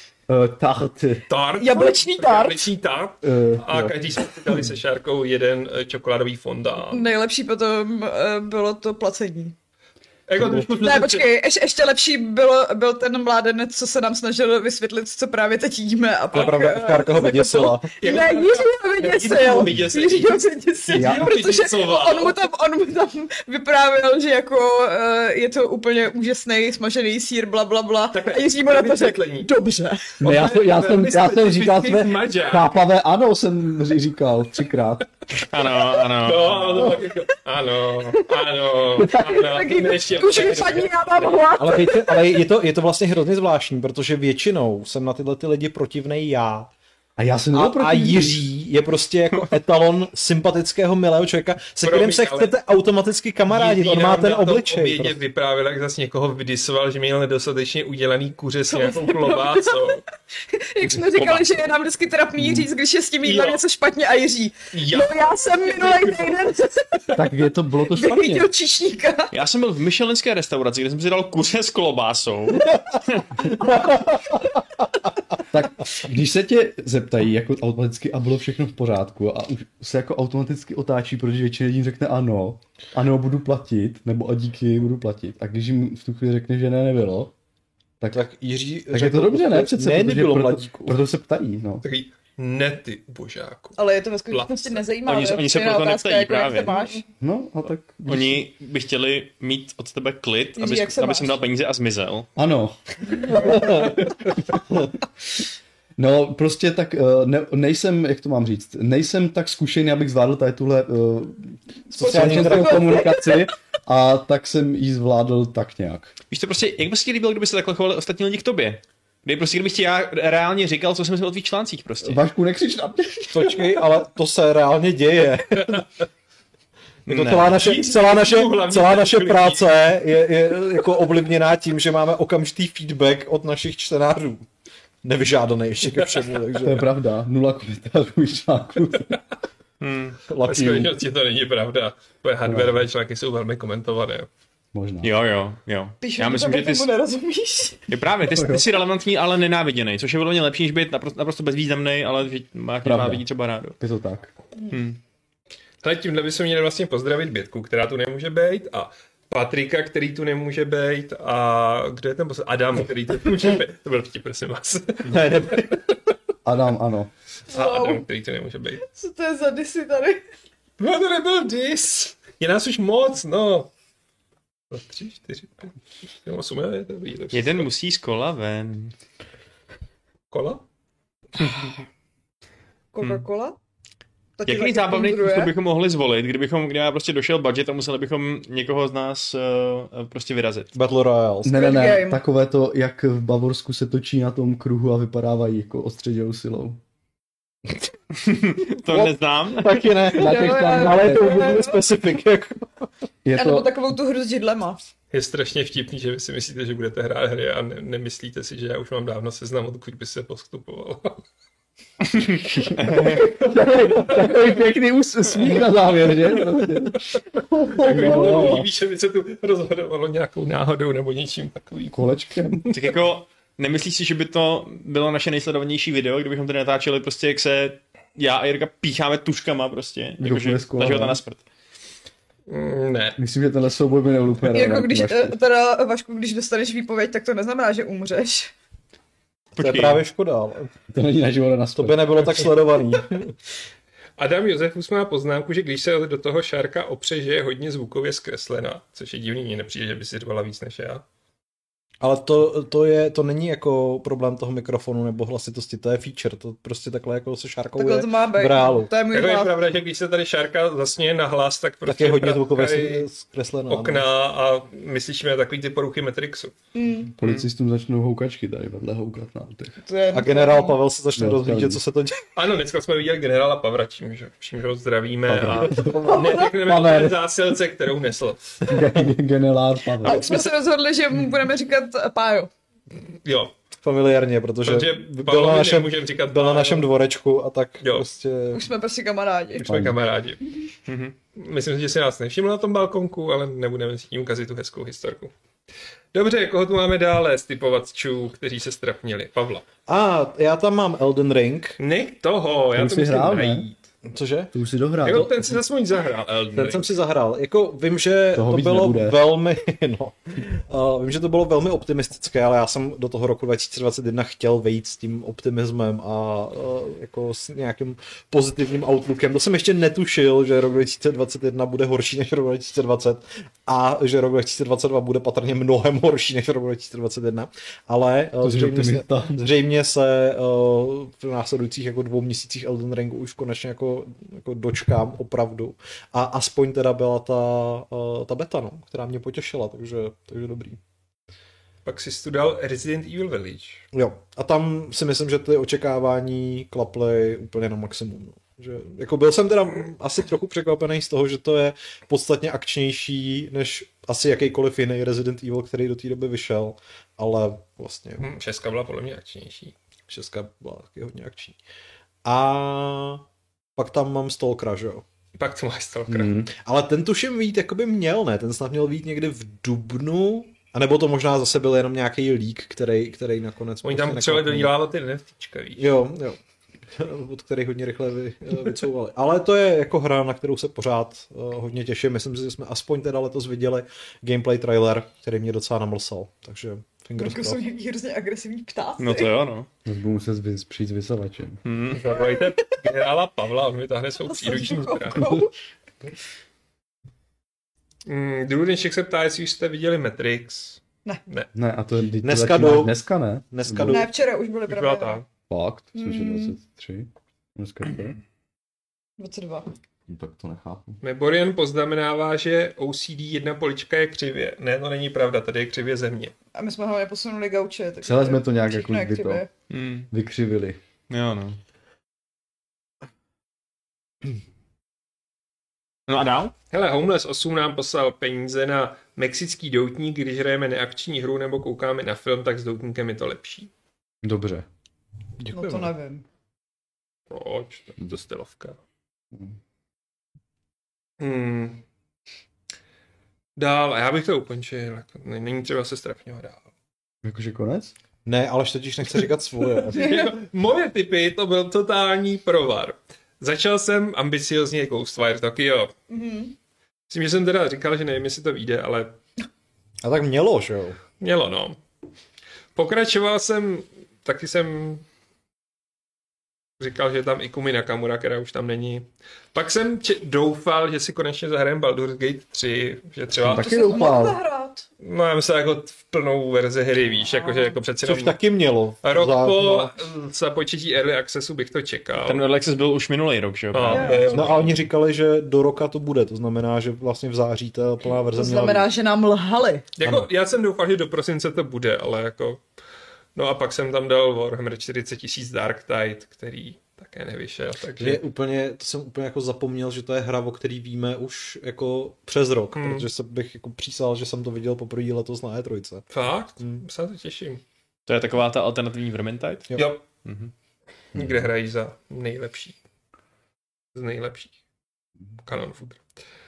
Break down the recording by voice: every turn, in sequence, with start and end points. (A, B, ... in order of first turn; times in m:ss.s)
0:00.3-0:01.3 A
0:01.3-0:07.1 B
0:01.6-0:02.7 C
0:03.2-0:03.9 A
0:06.9-0:09.6 C
0:10.3-0:11.3 B
0:10.4-0:10.6 A
0:10.8-0:30.2 C
0:16.3-0:16.7 B
0:16.3-0:17.9 D
0:18.0-0:22.4 B
0:20.9-0:21.3 A
0:28.1-0:29.5 B
0:30.2-0:32.7 B
0:30.2-0:35.1 A
0:35.4-0:36.7 E
0:36.1-0:41.4 B
0:38.1-0:38.4 C
0:39.0-0:42.3 C
0:41.6-0:46.7 D
0:47.2-0:48.4 A
0:47.5-0:55.2 D
0:51.8-0:52.5 B
0:53.5-1:00.0 B
0:58.7-1:00.0 C
1:00.5-1:07.2 C
1:01.2-1:01.4 B
1:02.4-1:02.7 A
1:03.2-1:03.6 B
1:04.7-1:06.3 B
1:07.2-1:08.5 A
1:07.9-1:09.3 C
1:09.3-1:13.4 E
1:15.5-1:27.3 A
1:28.1-1:31.0 D
1:28.9-1:31.8 A
1:31.8-1:33.8 B
1:33.8-1:37.0 C
1:34.3-1:34.8 B
1:35.1-1:36.8 E
1:37.2-1:38.5 A
1:38.1-1:42.3 E
1:40.6-1:41.4 C
1:42.4-1:44.0 A
1:43.4-1:43.9 D
1:46.0-1:56.1 A
1:51.9-1:53.0 D
1:52.0-1:53.5 C
1:56.3-2:02.2 E
2:02.0-2:03.6 A
2:03.3-2:05.8 D
2:07.1-2:07.6 E
2:07.1-2:14.5 D
2:07.6-2:09.6 B
2:15.0-2:16.9 D
2:16.6-2:19.1 A
2:19.8-2:20.2 E
2:20.3-2:20.9 A
2:20.4-2:24.3 B
2:22.5-2:22.8 A
2:24.7-2:25.1 A
2:25.0-2:26.9 E
2:26.0-2:27.9 C
2:27.9-2:33.8 E
2:28.3-2:28.6 A
2:32.8-2:33.2 A
2:33.8-2:34.3 A
2:34.7-2:35.0 E
2:35.8-2:45.8 B
2:46.4-2:47.1 A
2:47.5-2:48.0 C
2:47.5-2:48.8 B
2:48.8-2:50.2 C
2:50.8-2:53.7 B
2:54.7-2:57.7 B
2:57.3-2:59.0 E
3:00.3-3:00.6 B
3:01.4-3:01.7 E
3:02.9-3:03.6 C
3:04.4-3:05.5 C
3:04.5-3:10.7 E
3:10.7-3:11.5 D
3:11.4-3:16.8 A
3:11.5-3:12.2 C
3:18.2-3:19.8 E
3:18.9-3:22.7 D
3:20.1-3:21.5 A
3:20.1-3:21.8 C
3:23.2-3:23.8 A
3:23.3-3:24.8 C
3:25.1-3:31.2 B
3:32.2-3:33.2 E
3:32.5-3:38.7 A
3:33.2-3:34.5 B
3:37.8-3:42.8 B
3:41.9-3:42.7 A
3:42.7-3:51.4 E
3:50.2-3:51.2 A
3:52.5-3:53.2 B
3:53.2-3:55.4 A
3:54.5-3:58.5 C
3:59.6-4:00.0 E
3:59.6-4:00.7 D
4:00.9-4:02.3 A
4:01.8-4:03.3 D
4:04.2-4:11.0 B
4:12.0-4:18.9 D
4:17.8-4:19.6 C
4:19.1-4:23.1 B
4:21.9-4:24.1 D
4:23.7-4:26.5 B
4:26.7-4:27.1 C
4:27.2-4:29.8 A
4:27.2-4:27.5 E
4:29.8-4:30.8 C
4:30.1-4:32.2 D
4:31.2-4:31.8 A
4:32.4-4:38.7 B
4:35.3-4:37.2 A
4:35.6-4:36.3 D
4:36.1-4:36.5 C
4:38.6-4:40.4 A
4:40.0-4:42.5 C
4:43.2-4:43.5 B
4:43.8-4:48.7 D
4:44.6-4:46.9 B
4:48.5-4:49.7 C
4:49.6-4:50.4 B
4:49.6-4:50.0 A
4:50.9-4:51.2 E
4:51.4-4:55.3 B
4:56.1-4:59.6 B
4:59.9-5:01.8 D
5:01.8-5:03.8 B
5:02.7-5:03.7 A
5:04.1-5:04.5 D
5:04.5-5:05.6 A
5:05.0-5:06.9 B
5:06.5-5:40.8 D
5:08.3-5:09.2 A
5:28.4-5:29.4 A
5:41.8-5:43.8 B
5:43.9-5:58.3 D
5:58.2-5:59.7 B
6:00.1-6:01.6 D
6:02.2-6:03.2 D
6:03.8-6:05.0 D
6:05.4-6:06.3 B
6:06.1-6:06.5 A
6:06.5-6:14.7 D
6:13.8-6:15.9 B
6:15.8-6:16.4 D
6:17.0-6:27.6 D
6:27.2-6:29.3 C
6:29.0-6:29.7 E
6:29.8-6:31.6 A
6:31.6-6:32.0 E
6:31.9-6:35.4 B
6:34.3-6:35.5 C
6:38.1-6:41.5 B
6:41.5-6:44.0 A
6:42.2-6:43.0 D
6:43.5-6:44.1 D
6:43.9-6:45.2 C
6:44.7-6:45.3 B
6:45.5-6:48.2 A
6:46.0-6:46.6 C
6:49.2-6:49.7 C
6:50.1-6:51.0 A
6:51.0-6:56.3 B
6:56.5-6:59.5 C
6:58.0-6:59.4 A
6:59.7-7:00.1 E
7:00.1-7:00.8 A
7:01.1-7:01.6 E
7:06.1-7:06.5 E
7:06.7-7:13.7 B
7:14.2-7:14.7 A
7:15.4-7:15.9 D
7:15.5-7:16.2 C
7:17.3-7:18.8 B
7:21.2-7:21.8 B
7:23.6-7:26.6 B
7:27.2-7:27.9 A
7:28.2-7:30.1 D
7:29.9-7:35.9 B
7:30.0-7:30.4 C
7:36.1-7:36.6 C
7:37.1-7:39.2 B
7:40.0-7:41.0 D
7:41.2-7:41.8 B
7:42.8-7:45.0 B
7:46.8-7:53.9 B
7:53.4-7:54.4 A
7:53.5-7:54.9 C
7:55.0-7:58.4 B
7:57.3-7:57.8 C
7:58.0-8:00.0 D
7:59.0-8:02.4 B
8:02.2-8:04.7 E
8:03.7-8:04.8 B
8:03.9-8:04.3 C
8:04.3-8:08.9 D
8:08.4-8:09.9 C
8:10.0-8:12.6 B
8:13.4-8:18.2 B
8:18.0-8:26.1 D
8:22.8-8:23.1 B
8:26.1-8:27.6 B
8:28.1-8:29.7 E
8:29.8-8:30.0 B
8:30.2-8:30.5 E
8:31.2-8:32.8 B
8:33.9-8:34.6 B
8:35.4-8:36.0 B